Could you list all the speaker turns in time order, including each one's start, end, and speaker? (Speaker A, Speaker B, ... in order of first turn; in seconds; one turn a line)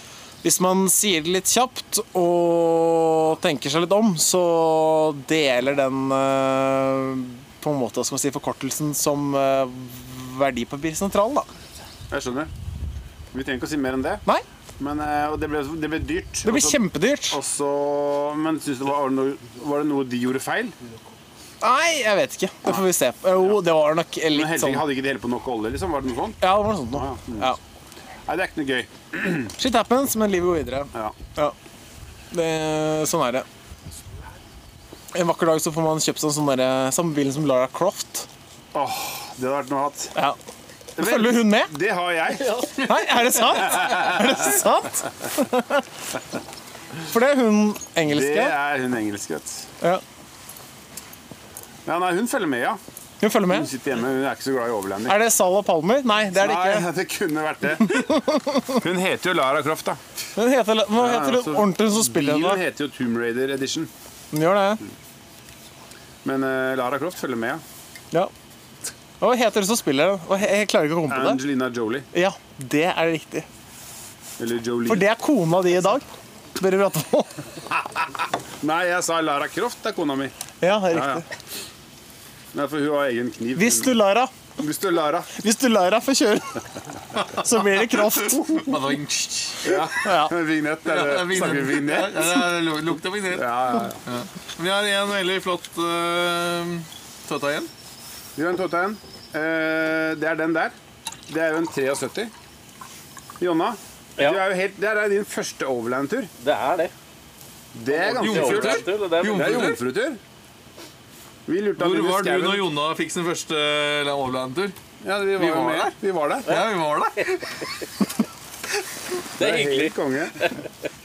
Speaker A: 0.4-11.5
Speaker B: 12.1-12.5
Speaker B: 13.3-14.2
Speaker B: 14.8-20.7
Speaker A: 16.4-17.4
Speaker A: 21.6-24.8
Speaker B: 24.3-27.6
Speaker A: 26.4-27.6
Speaker B: 28.2-29.5
Speaker A: 29.6-31.5
Speaker A: 32.3-33.4
Speaker A: 35.1-38.3
Speaker B: 38.7-40.1
Speaker B: 41.0-42.7
Speaker A: 41.0-41.7
Speaker A: 42.8-45.8
Speaker B: 43.6-44.5
Speaker A: 47.1-48.5
Speaker B: 48.0-49.7
Speaker B: 51.9-52.8
Speaker A: 53.2-53.7
Speaker B: 53.5-55.2
Speaker A: 55.0-56.9
Speaker B: 56.4-58.0
Speaker A: 57.8-58.8
Speaker B: 58.8-60.0
Speaker A: 60.4-62.6
Speaker B: 61.0-63.9
Speaker A: 64.3-64.8
Speaker B: 66.2-67.6
Speaker A: 69.2-71.4
Speaker B: 71.1-72.1
Speaker A: 72.1-73.5
Speaker B: 74.4-75.1
Speaker A: 74.9-76.0
Speaker A: 76.6-77.4
Speaker B: 77.7-80.3
Speaker A: 80.6-81.2
Speaker B: 80.9-81.2
Speaker B: 82.5-84.0
Speaker A: 83.5-84.3
Speaker B: 84.6-85.3
Speaker A: 85.3-86.6
Speaker A: 87.2-88.7
Speaker C: 88.2-89.8
Speaker B: 89.6-92.5
Speaker A: 90.0-90.3
Speaker C: 90.8-97.7
Speaker B: 93.3-94.0
Speaker B: 98.3-100.7
Speaker B: 101.3-102.3
Speaker B: 103.4-106.3
Speaker D: 104.2-104.4
Speaker D: 106.4-106.9
Speaker B: 107.7-110.2
Speaker D: 107.9-109.8
Speaker C: 108.2-109.8
Speaker B: 111.5-112.7
Speaker C: 111.8-114.7
Speaker B: 115.0-116.6
Speaker C: 115.4-115.9
Speaker C: 116.5-117.4
Speaker B: 119.4-120.5
Speaker D: 119.4-120.5